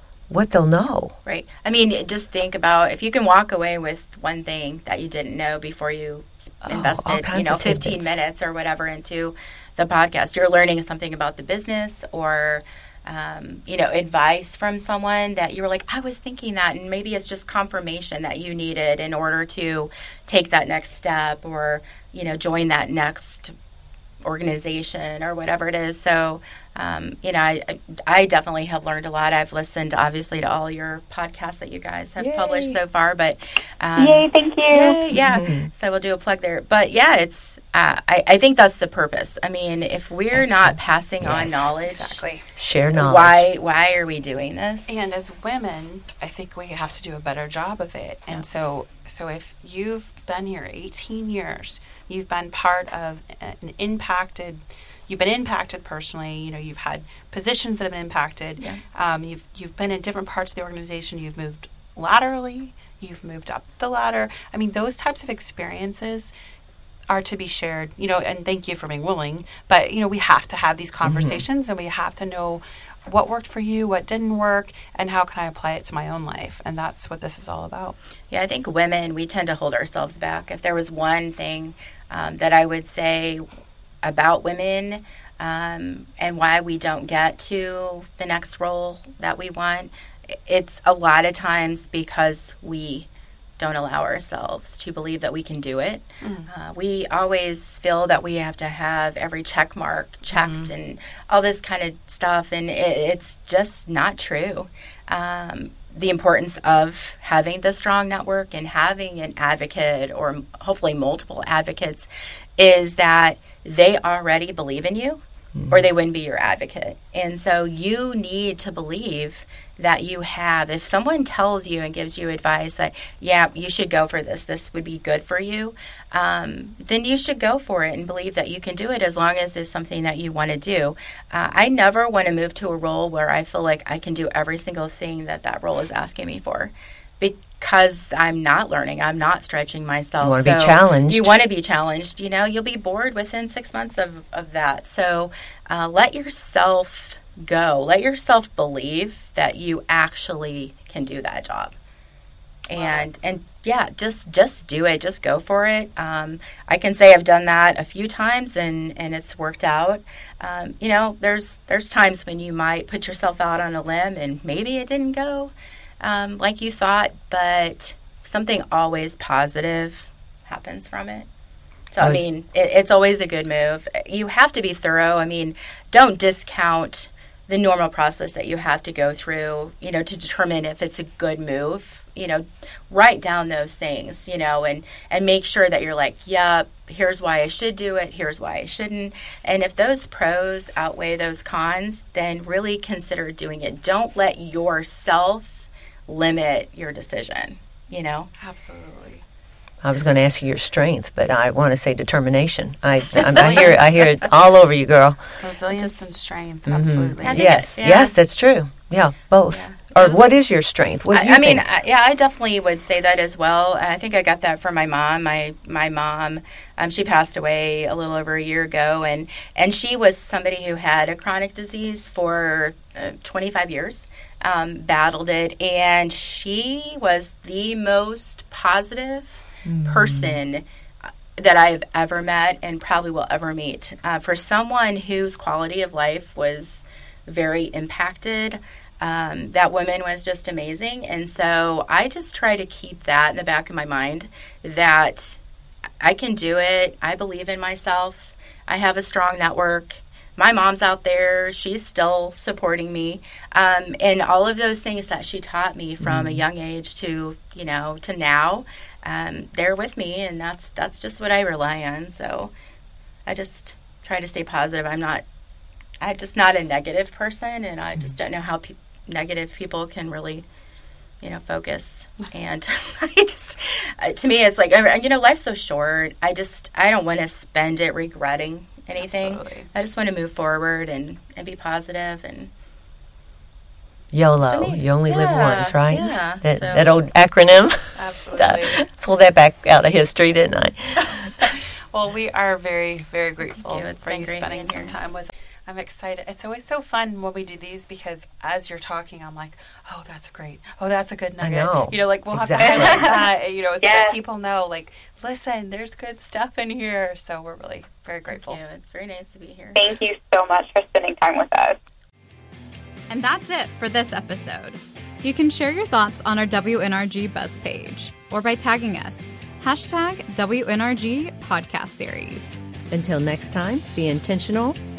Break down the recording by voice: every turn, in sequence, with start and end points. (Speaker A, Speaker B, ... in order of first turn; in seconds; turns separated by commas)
Speaker A: 0.3-1.1, Speaker B: 1.2-23.5, Speaker A: 6.6-8.2, Speaker B: 24.2-42.2, Speaker A: 32.2-32.8, Speaker C: 34.0-35.0, Speaker A: 35.1-35.7, Speaker A: 40.3-41.7, Speaker D: 41.8-42.5, Speaker A: 42.5-43.5, Speaker B: 42.9-45.1, Speaker D: 44.9-66.3, Speaker D: 67.1-78.0, Speaker A: 71.0-71.4, Speaker B: 78.3-83.4, Speaker B: 84.0-93.1, Speaker B: 93.6-151.7, Speaker D: 96.2-96.5, Speaker D: 100.3-100.7, Speaker A: 115.5-115.8, Speaker A: 140.2-141.3, Speaker B: 152.7-171.3, Speaker D: 152.7-153.0, Speaker B: 171.9-198.3, Speaker A: 172.0-172.2, Speaker D: 198.4-199.2, Speaker A: 199.8-205.2, Speaker B: 203.1-203.9, Speaker D: 203.1-204.2, Speaker D: 205.4-207.6, Speaker B: 205.7-206.1, Speaker A: 206.7-211.7, Speaker B: 207.2-208.2, Speaker B: 209.5-210.3, Speaker B: 211.1-245.4, Speaker A: 229.7-230.4, Speaker B: 246.0-262.5, Speaker A: 256.0-256.4, Speaker B: 263.2-265.2, Speaker B: 266.0-270.4, Speaker B: 271.2-282.5, Speaker D: 279.0-279.7, Speaker A: 284.1-291.5, Speaker B: 284.4-286.9, Speaker D: 287.9-288.9, Speaker D: 291.4-308.6, Speaker B: 293.5-294.9, Speaker A: 301.4-303.1, Speaker C: 302.6-303.3, Speaker C: 303.8-304.2, Speaker B: 308.3-309.9, Speaker C: 309.7-311.8, Speaker E: 313.1-322.5, Speaker A: 322.9-324.8